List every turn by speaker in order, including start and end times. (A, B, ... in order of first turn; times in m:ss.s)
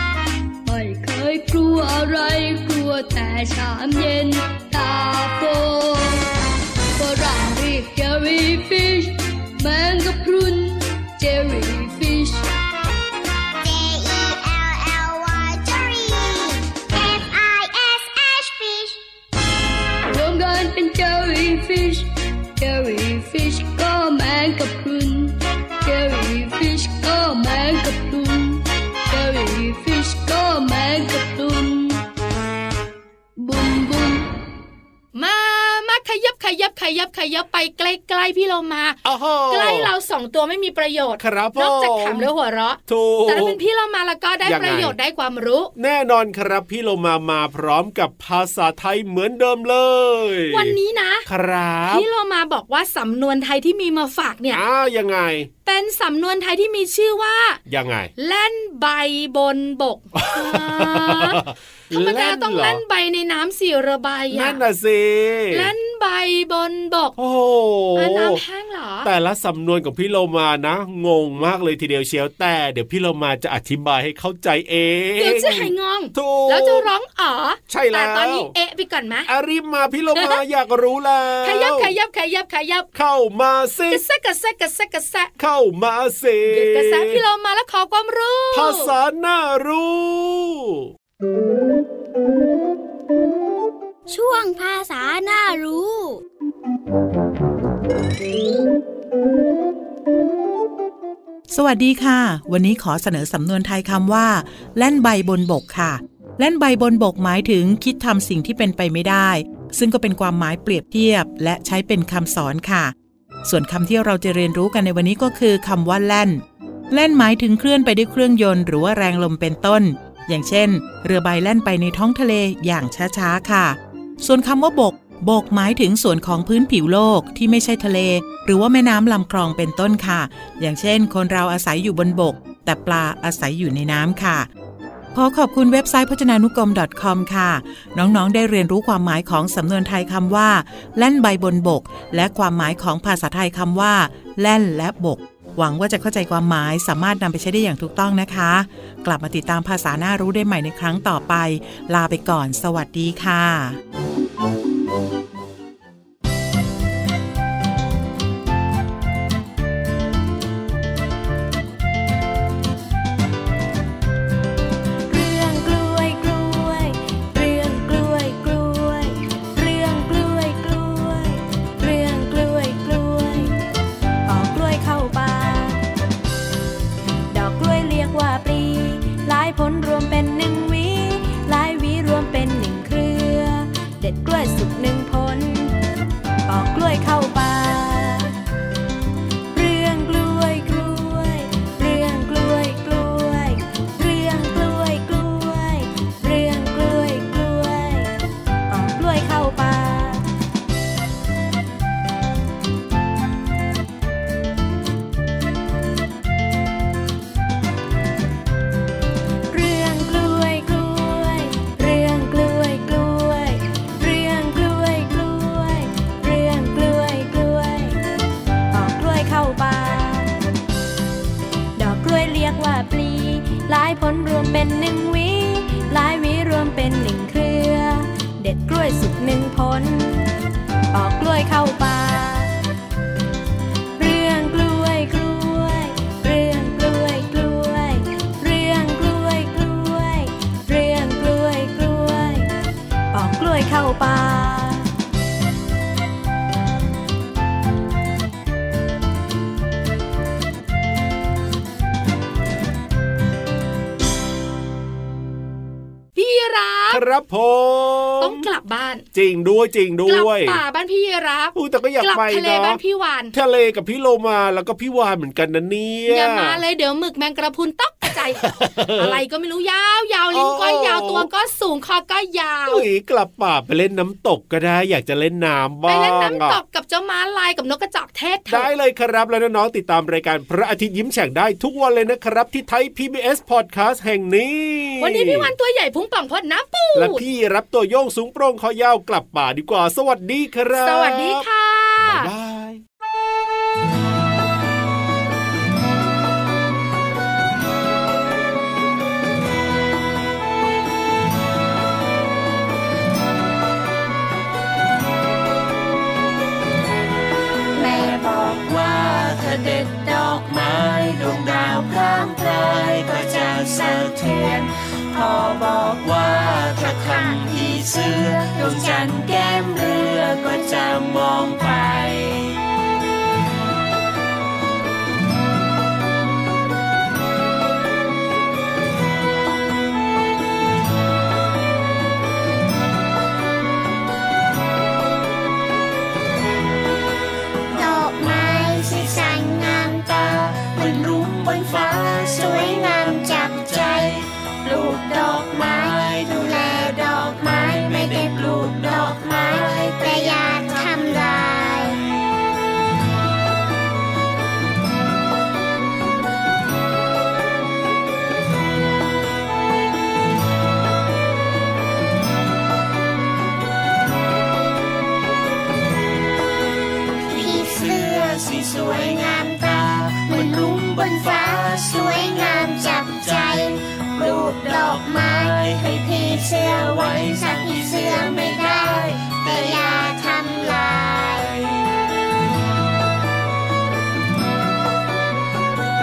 0:00.6-0:06.2 A
0:07.0-0:12.4 A
0:13.6-0:18.9 B
0:20.1-0:32.0 A
0:33.4-0:34.3 A
0:35.2-0:39.0 C
0:39.0-0:39.9 D
0:39.5-0:45.7 C
0:41.2-0:42.3 D
0:42.9-0:43.6 D
0:44.4-0:45.0 D
0:45.8-0:50.8 D
0:50.5-0:51.2 C
0:51.3-0:52.1 D
0:51.9-0:54.6 C
0:54.5-0:55.5 D
0:55.6-0:57.6 C
0:57.7-0:58.1 D
0:58.2-1:01.4 C
1:00.2-1:02.8 D
1:01.9-1:04.6 C
1:04.3-1:05.7 D
1:05.5-1:07.2 C
1:07.2-1:08.4 D
1:08.0-1:09.1 C
1:09.0-1:16.9 D
1:15.2-1:19.3 C
1:17.7-1:18.5 D
1:19.3-1:21.9 D
1:20.2-1:20.4 C
1:21.4-1:22.9 C
1:22.9-1:24.0 D
1:23.9-1:25.3 C
1:25.4-1:27.2 D
1:26.5-1:28.9 C
1:28.5-1:30.9 D
1:34.1-1:36.2 E
1:41.5-1:52.9 F
1:53.4-2:14.5 F
2:15.1-2:33.8 F
2:45.1-2:53.6 G
2:54.3-2:55.8 G
2:57.3-3:05.8 G
3:06.5-3:08.4 G
3:09.5-3:18.1 G
3:18.7-3:20.3 G
3:29.5-3:38.0 G
3:38.7-3:40.4 G
3:41.8-3:50.3 G
3:50.9-3:52.5 G
3:54.0-4:02.5 G
4:03.1-4:04.9 G
4:16.2-4:17.0 C
4:16.9-4:18.4 D
4:18.2-4:19.0 C
4:19.1-4:20.6 D
4:20.1-4:23.3 C
4:21.6-4:22.8 D
4:23.3-4:26.6 D
4:26.1-4:32.8 C
4:28.4-4:29.2 D
4:30.3-4:31.3 D
4:32.7-4:36.6 D
4:35.9-4:38.7 C
4:38.5-4:45.5 D
4:45.0-4:47.2 C
4:47.0-4:51.5 D
4:50.8-4:52.3 C
4:52.0-4:52.8 D
5:07.7-5:22.6 B
5:37.7-5:52.0 B
6:07.3-6:21.7 B